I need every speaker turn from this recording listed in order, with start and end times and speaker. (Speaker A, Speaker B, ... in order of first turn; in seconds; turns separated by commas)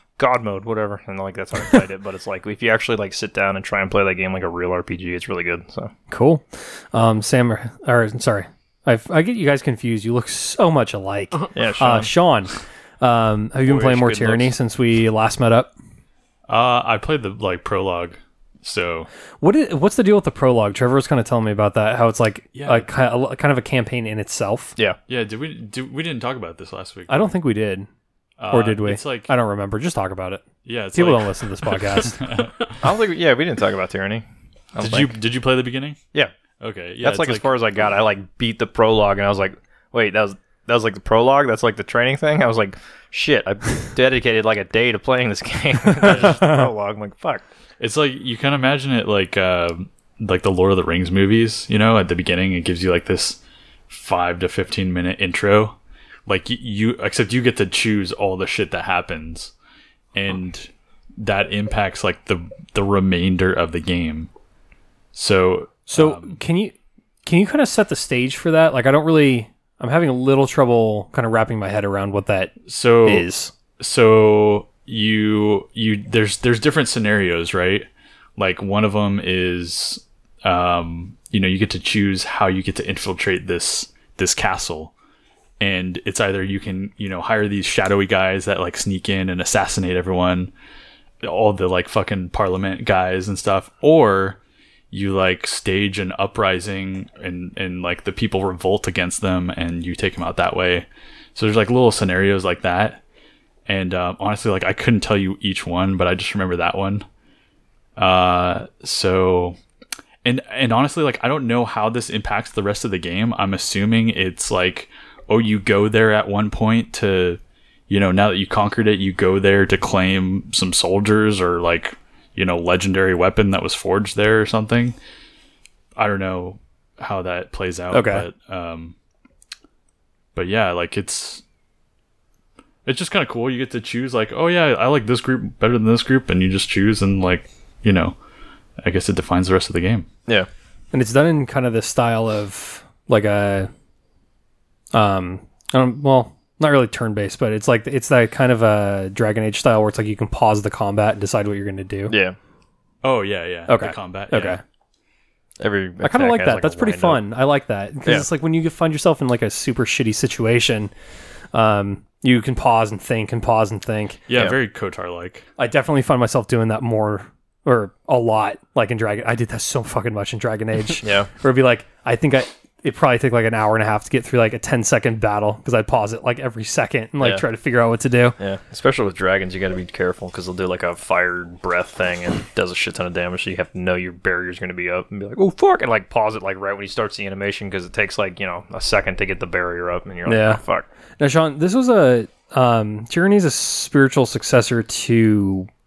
Speaker A: 0.2-5.9, Speaker B: 6.1-15.7, Speaker A: 11.6-12.1, Speaker A: 13.6-14.5, Speaker C: 16.5-19.1, Speaker B: 19.4-24.8, Speaker C: 22.5-22.9, Speaker C: 25.1-27.3, Speaker B: 27.1-27.9, Speaker C: 28.4-29.3, Speaker B: 28.5-32.2, Speaker C: 30.6-32.7, Speaker A: 32.8-35.2, Speaker C: 34.8-36.0, Speaker C: 36.6-37.5, Speaker A: 37.0-47.5, Speaker B: 46.3-46.7, Speaker C: 47.8-55.8, Speaker C: 56.3-59.5, Speaker C: 60.1-64.3, Speaker C: 65.1-66.4, Speaker B: 65.9-66.7, Speaker B: 67.2-73.5, Speaker C: 72.7-84.9, Speaker C: 85.6-90.5, Speaker C: 91.2-94.4, Speaker C: 94.9-103.0, Speaker C: 103.7-107.0, Speaker C: 108.0-109.6, Speaker C: 110.2-125.0, Speaker C: 126.0-128.9, Speaker B: 127.9-128.3, Speaker C: 130.3-131.4, Speaker C: 132.8-138.2, Speaker C: 138.8-140.1, Speaker B: 140.9-143.7, Speaker B: 144.9-152.1, Speaker A: 152.1-152.4, Speaker C: 153.0-154.6, Speaker B: 153.7-154.6, Speaker A: 155.6-157.2, Speaker B: 156.0-160.9, Speaker B: 161.5-164.2, Speaker C: 164.3-165.5, Speaker B: 165.6-178.4, Speaker A: 171.0-171.3, Speaker A: 178.4-190.9, Speaker B: 190.3-190.6, Speaker B: 191.2-195.7